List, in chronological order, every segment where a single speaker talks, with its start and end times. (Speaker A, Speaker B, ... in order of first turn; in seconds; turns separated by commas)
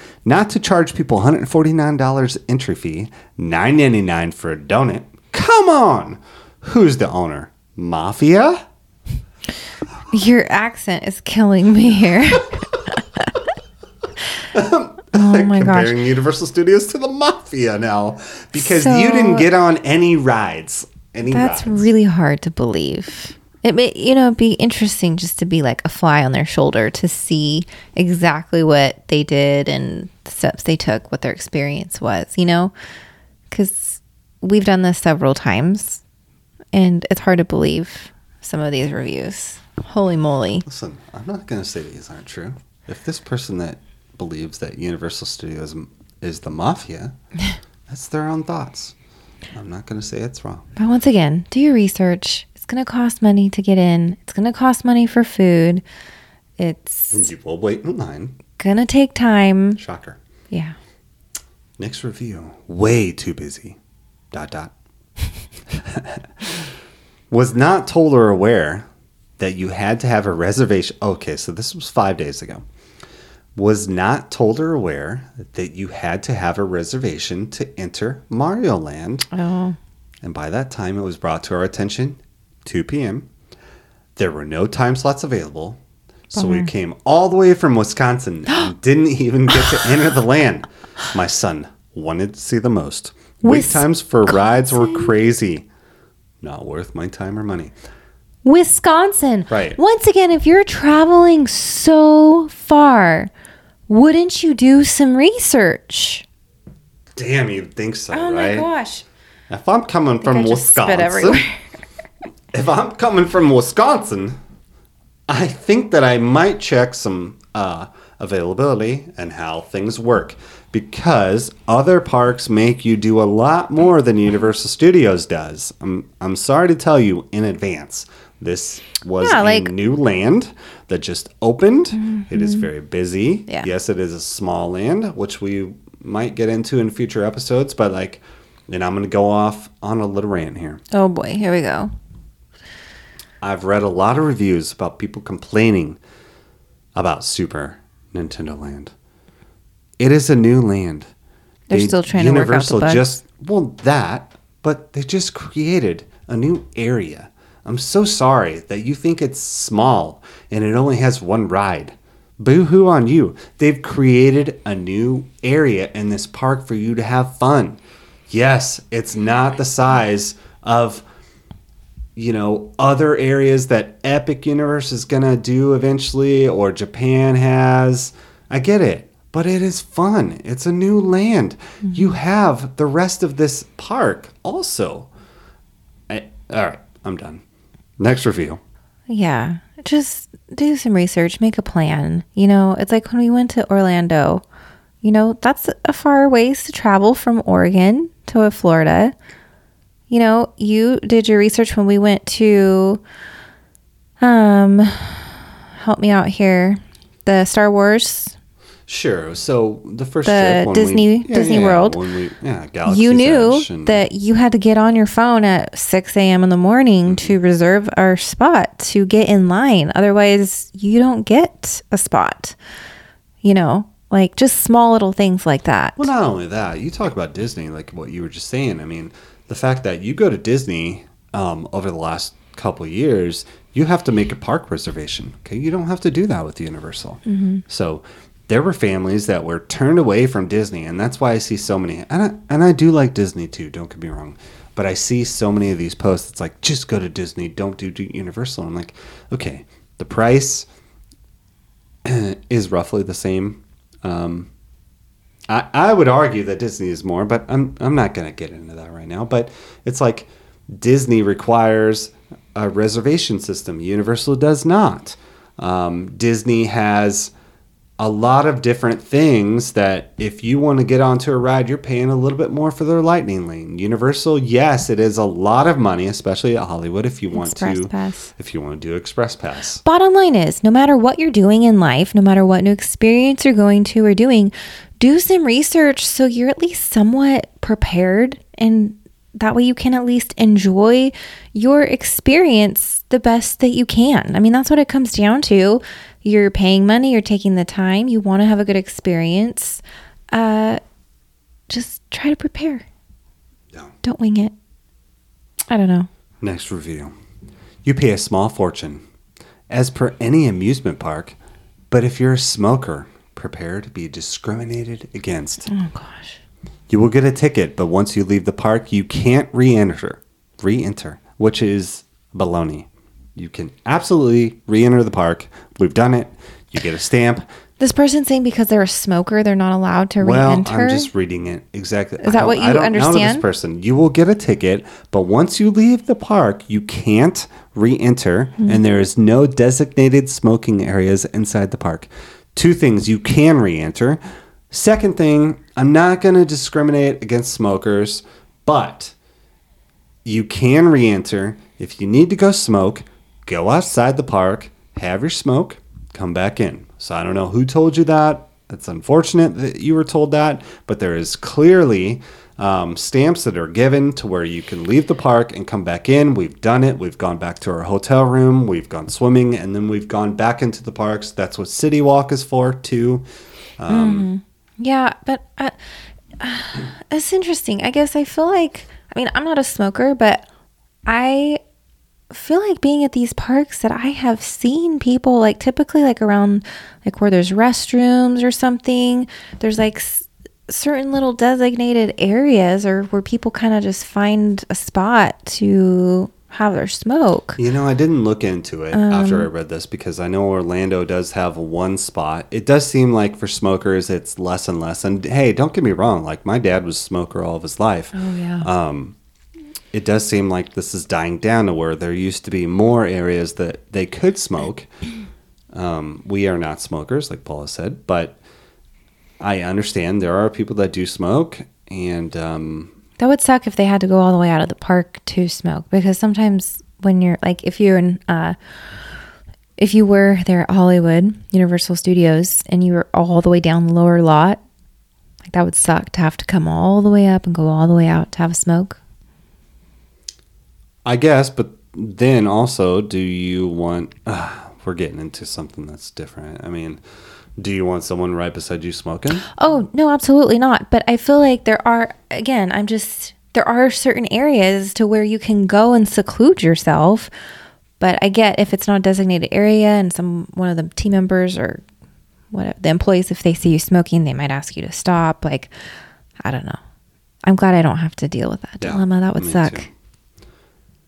Speaker A: 0.2-8.6, Speaker B: 10.1-13.3, Speaker A: 14.5-21.9, Speaker B: 15.1-15.9, Speaker B: 18.5-19.5, Speaker B: 21.3-32.7, Speaker B: 33.5-36.0, Speaker B: 36.7-40.6, Speaker A: 40.6-47.1, Speaker A: 47.9-48.9, Speaker A: 49.5-50.6, Speaker B: 50.8-55.8, Speaker B: 56.6-57.3, Speaker A: 57.1-58.4, Speaker B: 58.6-59.8, Speaker A: 59.8-60.2, Speaker A: 61.8-63.8, Speaker A: 64.3-64.7, Speaker A: 65.7-66.6, Speaker A: 67.3-68.9, Speaker A: 69.4-72.6, Speaker A: 73.5-79.3, Speaker B: 79.3-79.8, Speaker A: 80.2-83.3, Speaker A: 84.2-85.8, Speaker A: 86.3-95.7, Speaker B: 86.3-86.7, Speaker B: 93.4-95.1, Speaker A: 96.4-97.7, Speaker B: 98.4-103.3, Speaker A: 99.5-99.8, Speaker B: 103.9-106.2, Speaker A: 107.2-108.7, Speaker B: 108.1-109.0, Speaker A: 109.5-111.4, Speaker B: 110.2-111.5, Speaker A: 112.5-114.4, Speaker A: 115.3-140.8, Speaker B: 129.2-129.7, Speaker B: 132.0-132.6, Speaker B: 140.9-141.9, Speaker A: 143.4-146.0, Speaker A: 146.9-148.9, Speaker A: 150.0-151.1, Speaker B: 151.7-153.1, Speaker A: 151.7-171.0, Speaker A: 172.2-185.1, Speaker A: 186.1-187.4, Speaker A: 188.0-188.6, Speaker B: 189.1-194.4, Speaker B: 195.0-199.1, Speaker B: 200.1-203.0, Speaker B: 204.2-208.3, Speaker A: 208.9-214.0, Speaker B: 210.2-212.0, Speaker B: 212.8-222.6, Speaker A: 217.1-217.3, Speaker B: 223.4-226.1, Speaker A: 226.0-250.7, Speaker B: 237.3-237.6, Speaker A: 252.0-254.5, Speaker A: 255.5-267.3, Speaker A: 268.0-279.8, Speaker B: 277.3-278.3, Speaker B: 279.8-300.8, Speaker B: 301.7-302.8, Speaker B: 304.0-304.5, Speaker B: 305.7-306.1, Speaker A: 306.4-307.1, Speaker A: 307.8-309.0, Speaker A: 309.7-311.4, Speaker A: 311.9-315.7, Speaker B: 315.7-316.4, Speaker A: 316.9-327.4, Speaker B: 327.8-331.1, Speaker A: 330.2-344.2, Speaker B: 332.2-333.4, Speaker A: 344.7-349.1, Speaker A: 350.2-373.2, Speaker A: 373.8-374.3, Speaker B: 373.9-375.8, Speaker B: 376.4-380.4, Speaker B: 381.1-381.6, Speaker B: 382.3-397.6, Speaker A: 397.6-409.2, Speaker B: 398.9-399.5, Speaker B: 408.1-408.7, Speaker A: 409.9-414.9, Speaker A: 415.7-418.4, Speaker A: 419.4-422.9, Speaker B: 423.2-428.6, Speaker B: 429.8-434.6, Speaker B: 435.5-439.0, Speaker A: 441.0-447.0, Speaker A: 447.6-449.5, Speaker B: 449.5-457.3, Speaker B: 458.0-461.8, Speaker B: 462.5-465.7, Speaker B: 466.4-466.8, Speaker B: 467.4-469.9, Speaker A: 468.8-469.9